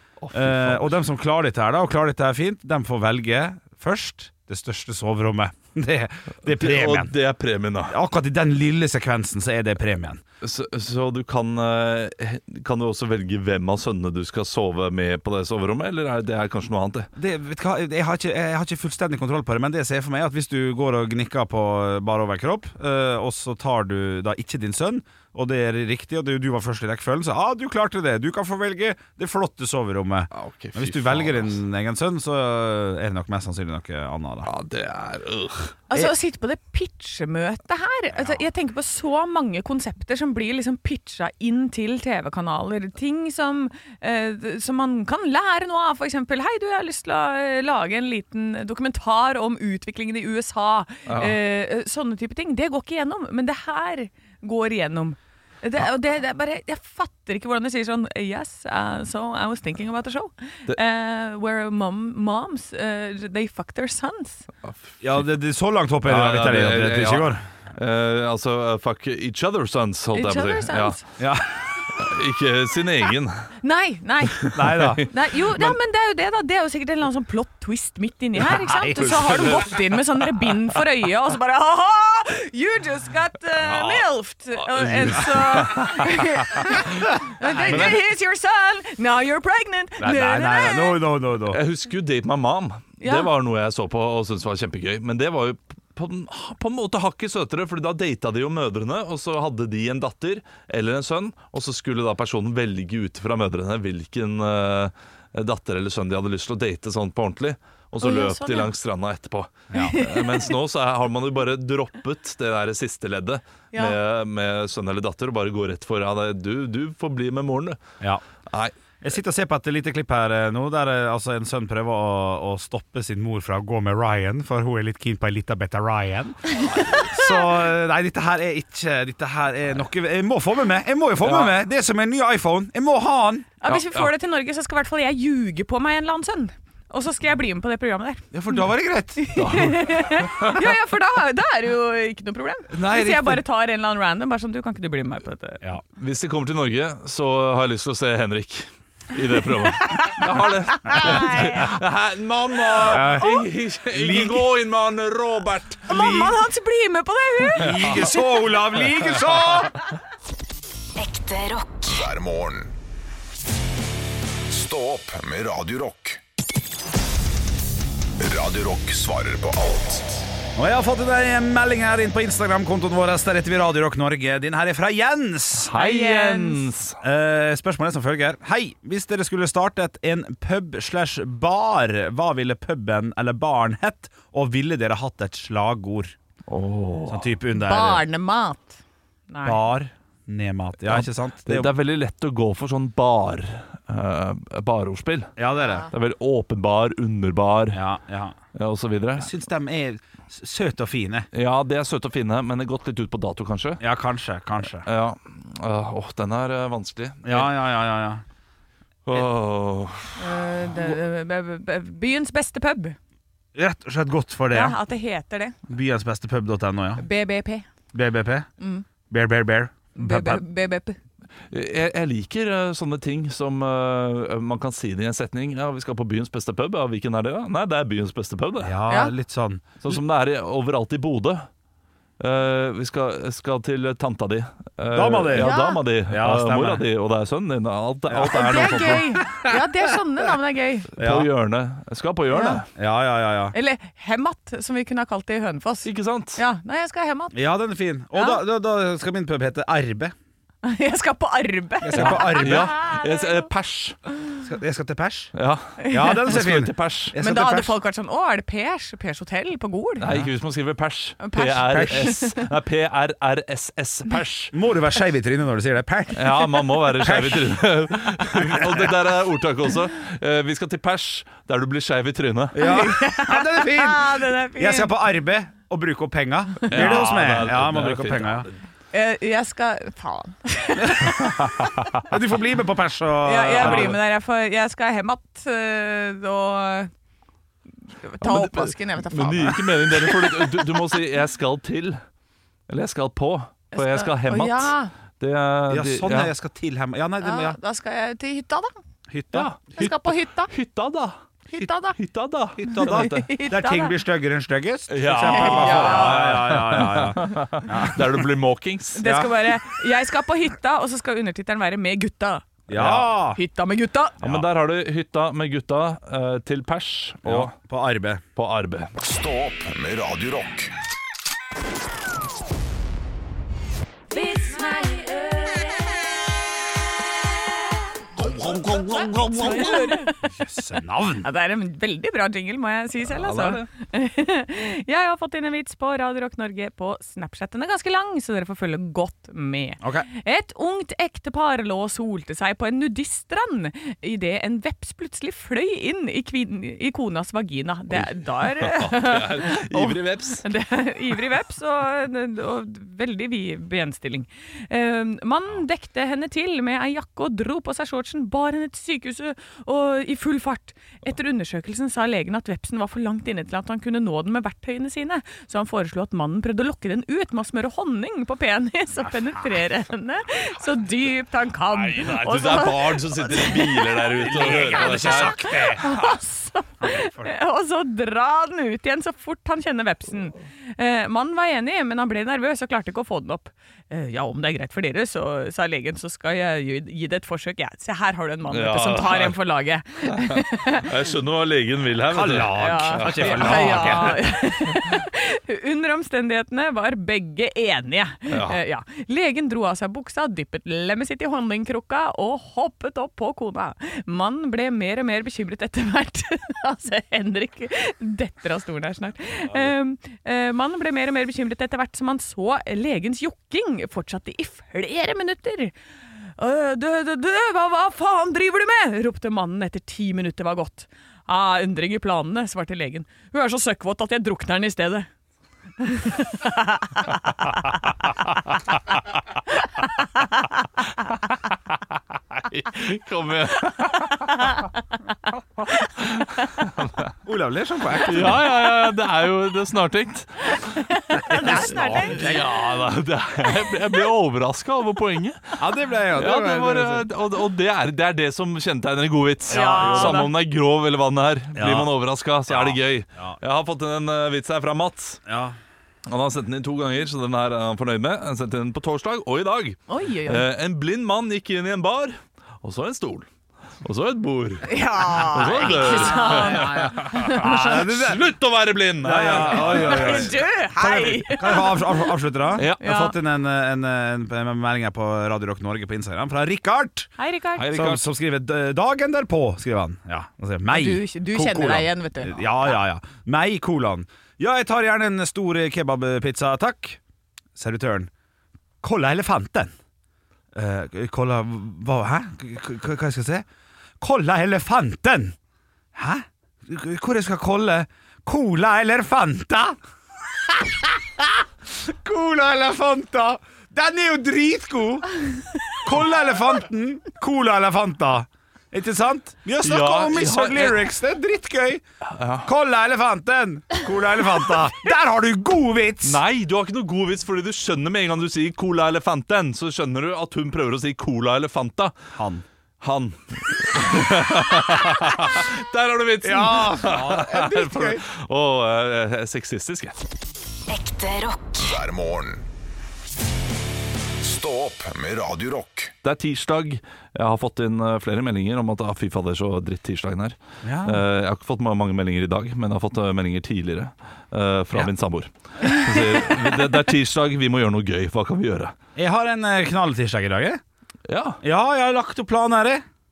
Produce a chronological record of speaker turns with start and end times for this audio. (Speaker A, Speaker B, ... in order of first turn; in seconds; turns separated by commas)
Speaker A: 0.2-1.0, Speaker B: 0.3-7.1, Speaker A: 6.5-8.0, Speaker B: 7.8-10.2, Speaker A: 10.4-17.1, Speaker B: 17.1-34.5, Speaker A: 30.3-31.6, Speaker A: 34.5-35.8, Speaker C: 35.9-64.5, Speaker A: 51.1-51.4, Speaker A: 64.6-65.2, Speaker B: 65.0-67.4, Speaker A: 66.0-71.0, Speaker C: 70.1-71.0, Speaker B: 71.2-71.6, Speaker A: 71.9-73.5, Speaker C: 73.6-91.0, Speaker A: 74.3-75.0, Speaker B: 74.5-75.1, Speaker B: 78.5-79.6, Speaker A: 79.0-79.8, Speaker A: 83.6-84.1, Speaker A: 84.6-86.8, Speaker A: 87.6-88.0, Speaker B: 87.7-87.9, Speaker B: 90.0-91.6, Speaker A: 91.5-117.8, Speaker C: 93.0-93.3, Speaker C: 108.0-108.7, Speaker C: 109.7-110.5, Speaker A: 118.5-118.7, Speaker B: 119.0-133.5, Speaker C: 127.0-127.3, Speaker A: 131.2-131.6, Speaker C: 133.6-138.3, Speaker A: 133.7-134.1, Speaker B: 138.3-139.3, Speaker C: 139.2-145.6, Speaker A: 139.3-140.6, Speaker B: 142.7-143.4, Speaker A: 146.0-156.2, Speaker C: 149.7-151.7, Speaker B: 152.8-154.4, Speaker C: 155.9-158.2, Speaker B: 155.9-156.3, Speaker B: 157.5-159.8, Speaker D: 161.0-161.9, Speaker E: 161.9-162.7, Speaker E: 164.5-166.2, Speaker E: 168.2-170.2, Speaker B: 170.6-175.7, Speaker A: 175.6-177.0, Speaker C: 175.7-176.7, Speaker B: 177.0-186.1, Speaker A: 186.5-187.3, Speaker B: 187.1-188.0, Speaker C: 187.5-189.6, Speaker B: 189.4-191.7, Speaker A: 190.9-195.3, Speaker B: 195.4-195.9, Speaker A: 195.9-197.8, Speaker B: 197.7-198.3, Speaker A: 198.5-199.3, Speaker B: 199.2-201.3, Speaker A: 201.3-203.8, Speaker B: 203.8-204.9, Speaker A: 204.8-207.5, Speaker B: 207.2-208.2, Speaker A: 209.1-210.2, Speaker C: 210.2-213.0, Speaker B: 213.5-214.8, Speaker C: 214.5-215.6, Speaker B: 215.7-217.0, Speaker C: 217.0-217.7, Speaker B: 217.9-218.5, Speaker C: 218.6-218.8, Speaker B: 219.1-220.4, Speaker C: 219.9-221.0, Speaker A: 221.5-228.8, Speaker B: 228.6-230.0, Speaker C: 228.9-229.1, Speaker A: 229.8-231.5, Speaker A: 232.2-239.5, Speaker B: 234.9-236.8, Speaker C: 235.3-235.8, Speaker B: 238.1-239.0, Speaker C: 238.2-240.9, Speaker A: 241.0-242.7, Speaker B: 241.0-241.3, Speaker C: 242.3-242.6, Speaker B: 242.7-243.5, Speaker C: 243.5-247.4, Speaker A: 245.8-246.4, Speaker B: 247.3-250.1, Speaker C: 248.1-248.4, Speaker C: 250.6-253.4, Speaker B: 251.8-252.7, Speaker A: 251.9-254.0, Speaker B: 254.4-255.3, Speaker A: 255.3-257.1, Speaker C: 255.8-256.2, Speaker B: 255.9-257.7, Speaker C: 257.2-260.1, Speaker A: 260.0-264.5, Speaker C: 261.2-262.4, Speaker B: 261.7-262.1, Speaker B: 264.5-267.6, Speaker A: 266.1-272.6, Speaker B: 268.3-268.9, Speaker B: 272.5-278.5, Speaker C: 272.6-274.9, Speaker A: 276.7-278.6, Speaker C: 276.7-277.0, Speaker C: 278.9-281.4, Speaker B: 280.8-281.2, Speaker B: 282.0-284.0, Speaker C: 283.2-286.9, Speaker A: 283.6-284.0, Speaker C: 288.0-290.8, Speaker A: 288.2-292.0, Speaker A: 292.7-296.3, Speaker C: 293.7-294.9, Speaker B: 295.7-297.6, Speaker C: 297.2-298.8, Speaker B: 299.1-299.9, Speaker A: 299.3-299.9, Speaker C: 299.8-300.5, Speaker A: 300.5-301.2, Speaker C: 301.5-302.0, Speaker A: 301.9-303.3, Speaker B: 302.6-308.2, Speaker C: 302.7-303.9, Speaker A: 304.9-309.0, Speaker C: 305.2-306.4, Speaker C: 308.9-312.5, Speaker B: 309.0-309.3, Speaker B: 312.7-313.4, Speaker A: 312.7-313.1, Speaker C: 313.3-314.2, Speaker A: 314.2-317.5, Speaker B: 317.2-318.2, Speaker A: 318.4-318.9, Speaker E: 319.0-320.7, Speaker C: 324.1-325.9, Speaker A: 328.2-330.0, Speaker C: 329.2-330.2, Speaker B: 330.2-331.3, Speaker C: 331.2-390.9, Speaker A: 333.0-333.6, Speaker B: 339.8-340.1, Speaker A: 347.9-350.5, Speaker A: 371.7-375.9, Speaker B: 374.2-375.9, Speaker B: 376.8-377.3, Speaker A: 388.5-389.4, Speaker A: 390.0-394.2, Speaker B: 392.1-394.2, Speaker C: 392.5-415.7, Speaker A: 398.3-398.6, Speaker C: 416.4-425.1, Speaker C: 425.8-427.9, Speaker C: 429.8-430.4, Speaker A: 432.3-434.6, Speaker A: 436.0-437.1, Speaker B: 437.2-438.4, Speaker A: 438.1-440.8, Speaker C: 440.7-442.4, Speaker B: 441.3-442.4, Speaker A: 441.8-445.6, Speaker B: 445.6-447.1, Speaker A: 446.1-455.2, Speaker B: 449.5-450.3, Speaker C: 449.5-450.3, Speaker B: 451.5-451.9, Speaker B: 452.5-453.4, Speaker B: 455.2-455.6, Speaker A: 456.1-463.3, Speaker C: 459.9-460.4, Speaker A: 463.8-470.4, Speaker C: 464.6-467.8, Speaker B: 466.1-468.2, Speaker B: 469.0-477.1, Speaker C: 469.2-472.1, Speaker A: 472.6-472.9, Speaker C: 472.8-473.1, Speaker C: 477.2-477.7, Speaker A: 477.6-478.1, Speaker B: 477.6-487.0, Speaker C: 480.7-482.7, Speaker B: 487.5-488.1, Speaker B: 488.8-489.7, Speaker B: 490.5-493.4, Speaker B: 494.0-495.3, Speaker B: 495.9-499.8, Speaker B: 500.3-505.1, Speaker B: 505.8-511.8, Speaker A: 509.6-510.9, Speaker A: 512.1-512.5, Speaker B: 512.4-516.2, Speaker A: 516.0-521.9, Speaker B: 522.1-522.4, Speaker A: 522.8-530.0, Speaker B: 526.2-528.0, Speaker D: 530.7-531.6, Speaker E: 531.6-532.5, Speaker E: 534.2-535.9, Speaker A: 536.0-548.7, Speaker B: 540.6-541.0, Speaker B: 549.0-550.6, Speaker A: 551.1-551.4, Speaker B: 551.4-552.8